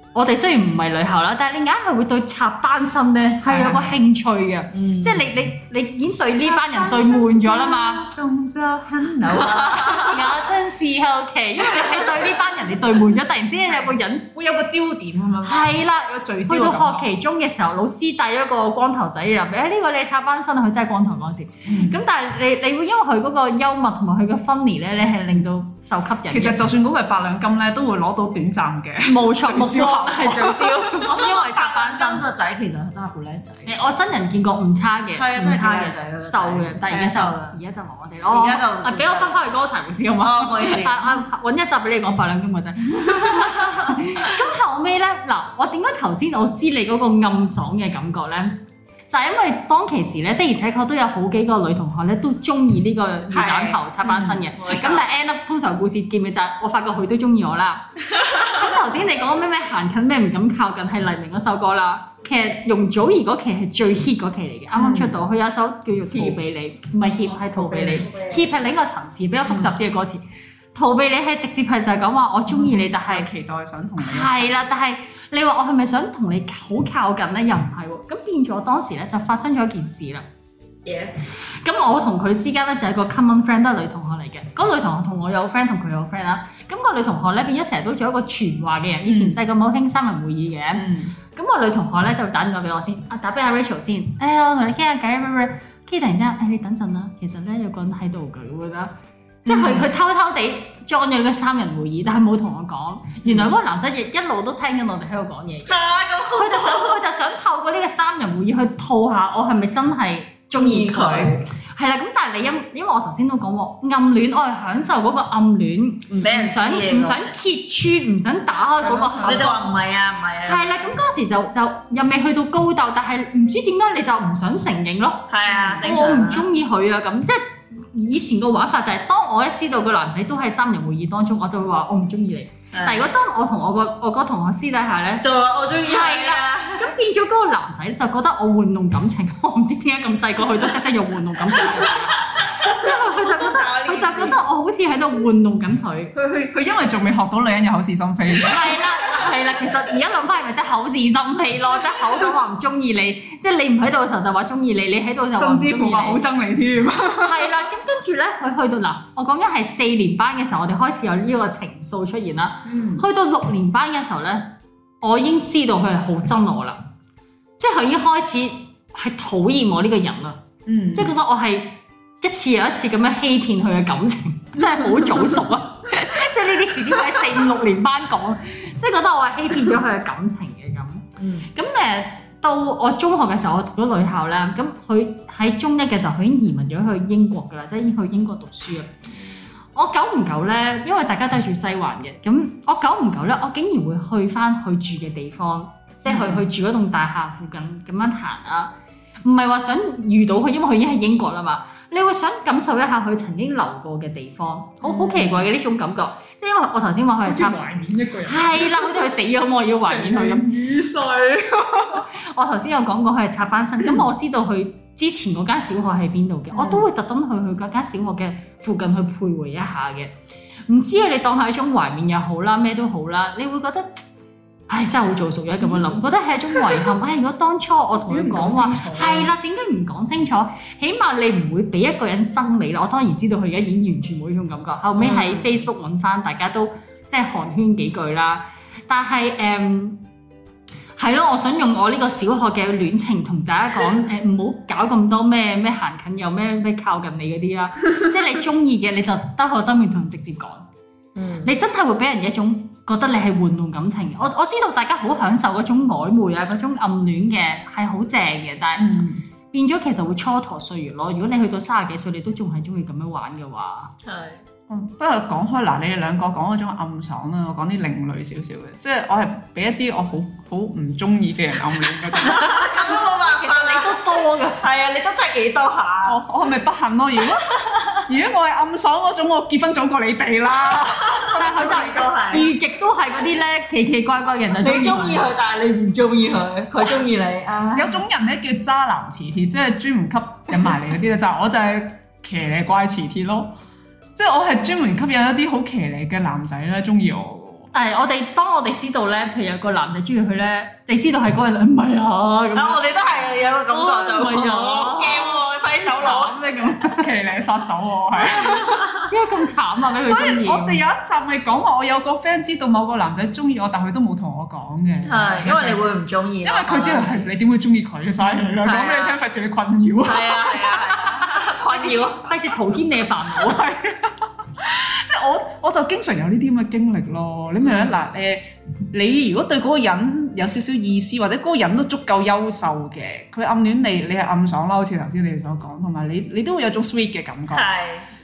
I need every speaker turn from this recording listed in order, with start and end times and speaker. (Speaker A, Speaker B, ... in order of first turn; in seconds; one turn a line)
Speaker A: 0.1-8.1
Speaker B: 3.4-4.0
Speaker C: 4.7-5.2
Speaker B: 6.4-10.2
Speaker C: 9.7-9.9
Speaker A: 10.0-14.3
Speaker B: 14.3-17.1
Speaker A: 15.4-26.6
Speaker B: 21.6-22.0
Speaker B: 26.3-30.9
Speaker A: 29.0-32.2
Speaker C: 30.9-33.8
Speaker A: 33.6-48.6
Speaker C: 35.1-37.6
Speaker C: 38.3-39.4
Speaker C: 40.2-41.2
Speaker C: 43.1-43.9
Speaker A: 49.1-70.2
Speaker C: 53.3-55.0
Speaker B: 54.1-54.4
Speaker B: 64.8-65.2
Speaker C: 67.2-68.5
Speaker A: 70.7-73.3
Speaker B: 72.5-74.6
Speaker A: 74.0-80.2
Speaker C: 80.8-81.2
Speaker A: 81.6-98.9
Speaker B: 89.0-89.4
Speaker B: 90.7-91.1
Speaker B: 99.4-99.9
Speaker A: 99.5-105.8
Speaker C: 105.7-107.0
Speaker A: 106.3-119.7
Speaker C: 110.6-111.4
Speaker C: 116.1-117.4
Speaker B: 118.8-119.5
Speaker C: 119.2-120.8
Speaker A: 120.4-135.2
Speaker C: 125.3-126.5
Speaker C: 132.7-133.1
Speaker C: 135.2-136.9
Speaker A: 135.8-146.1
Speaker C: 141.6-144.4
Speaker B: 146.1-148.8
Speaker A: 148.4-156.2
Speaker B: 155.3-157.5
Speaker A: 157.2-164.5
Speaker B: 162.6-163.0
Speaker A: 165.0-166.8
Speaker A: 167.6-170.4
Speaker B: 170.7-171.1
Speaker A: 170.9-188.9
Speaker B: 174.6-175.4
Speaker C: 181.2-181.5
Speaker A: 189.7-198.7
Speaker B: 196.1-196.5
Speaker A: 199.2-207.6
Speaker B: 204.8-205.5
Speaker B: 207.2-209.0
Speaker A: 208.2-210.4
Speaker B: 209.8-212.1
Speaker A: 212.1-220.1
Speaker B: 213.8-214.1
Speaker B: 216.5-216.9
Speaker A: 220.7-224.0
Speaker A: 224.7-240.0
Speaker B: 225.6-225.9
Speaker B: 227.9-229.3
Speaker C: 235.0-235.4
Speaker A: 241.0-250.7
Speaker C: 251.1-251.5
Speaker A: 251.4-258.9
Speaker B: 258.8-259.2
Speaker A: 259.5-263.9
Speaker C: 264.0-264.4
Speaker B: 264.7-272.6
Speaker C: 272.2-274.0
Speaker A: 272.2-274.6
Speaker C: 274.6-276.2
Speaker B: 276.1-277.5
Speaker C: 277.3-278.0
Speaker B: 278.1-281.7
Speaker C: 280.7-282.5
Speaker A: 281.3-285.2
Speaker C: 284.6-288.0
Speaker B: 287.7-293.5
Speaker B: 294.2-297.7
Speaker A: 297.7-302.9
Speaker C: 302.5-306.4
Speaker A: 303.7-307.1
Speaker B: 306.9-308.9
Speaker C: 308.4-309.0
Speaker A: 309.0-310.8
Speaker B: 310.0-315.8
Speaker C: 315.0-317.3
Speaker B: 316.4-321.2
Speaker C: 318.6-319.2
Speaker C: 320.0-322.3
Speaker A: 321.7-323.6
Speaker B: 323.3-337.7
Speaker C: 327.6-328.1
Speaker C: 337.5-338.1